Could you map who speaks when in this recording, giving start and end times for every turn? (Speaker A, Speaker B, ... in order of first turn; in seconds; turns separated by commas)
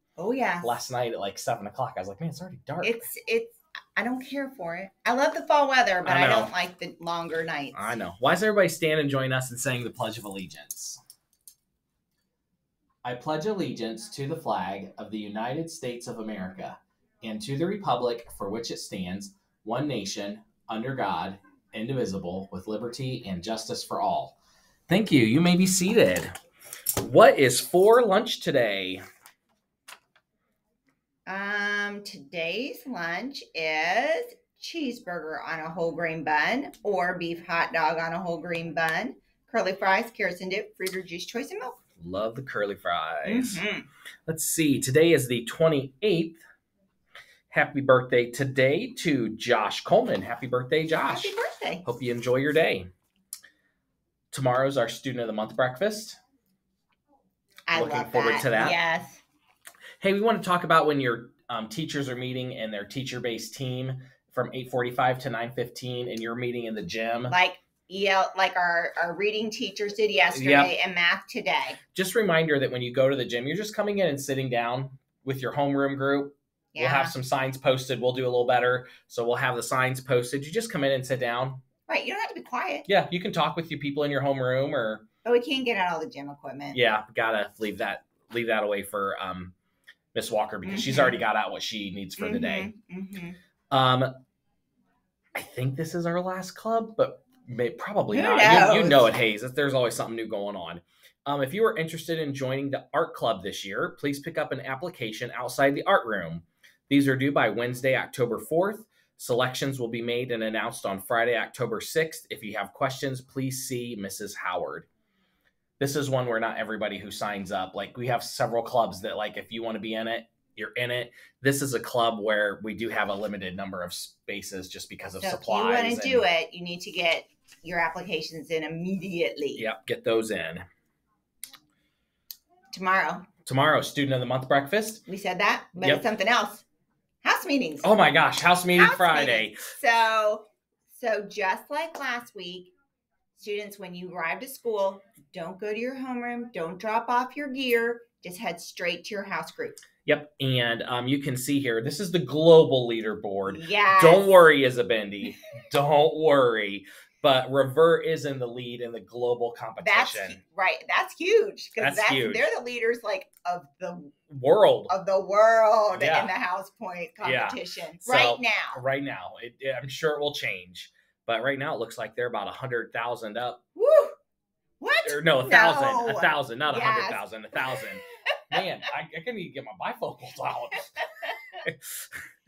Speaker A: 0.2-0.8, Speaker B: 0.6-3.1, Speaker A: 2.8-7.9, Speaker B: 6.0-6.5, Speaker B: 7.7-11.0, Speaker B: 13.0-24.4, Speaker B: 24.9-26.3, Speaker B: 27.0-29.0, Speaker A: 31.3-41.8, Speaker B: 42.0-43.6, Speaker A: 43.3-43.9, Speaker B: 44.3-46.4, Speaker B: 47.5-51.3, Speaker A: 51.1-51.9, Speaker B: 51.9-52.9, Speaker B: 54.3-56.2, Speaker A: 57.7-59.2, Speaker B: 57.7-58.8, Speaker B: 60.0-67.3, Speaker A: 67.3-71.8, Speaker B: 70.3-70.7, Speaker B: 71.9-81.6, Speaker A: 76.7-77.1, Speaker A: 81.9-82.9, Speaker B: 82.9-85.0, Speaker A: 85.2-86.8, Speaker B: 86.7-89.5, Speaker B: 90.1-92.7, Speaker A: 90.6-91.2, Speaker A: 92.2-93.4, Speaker B: 93.7-94.2, Speaker B: 95.3-114.9, Speaker A: 98.1-99.1, Speaker B: 115.8-126.3, Speaker A: 125.2-129.7, Speaker B: 129.6-130.6, Speaker A: 132.7-133.3, Speaker B: 133.4-135.0, Speaker A: 135.1-136.7, Speaker B: 135.8-136.1, Speaker A: 137.2-137.9, Speaker B: 137.8-139.6, Speaker A: 138.8-142.7, Speaker A: 143.4-149.8, Speaker B: 150.1-160.4, Speaker A: 153.5-154.4, Speaker A: 159.8-164.1, Speaker B: 161.8-162.5, Speaker B: 164.3-164.9, Speaker A: 164.9-168.8, Speaker B: 165.9-166.3, Speaker B: 167.2-173.6, Speaker A: 173.8-174.2, Speaker A: 174.8-177.8, Speaker B: 175.1-180.9, Speaker B: 181.6-182.1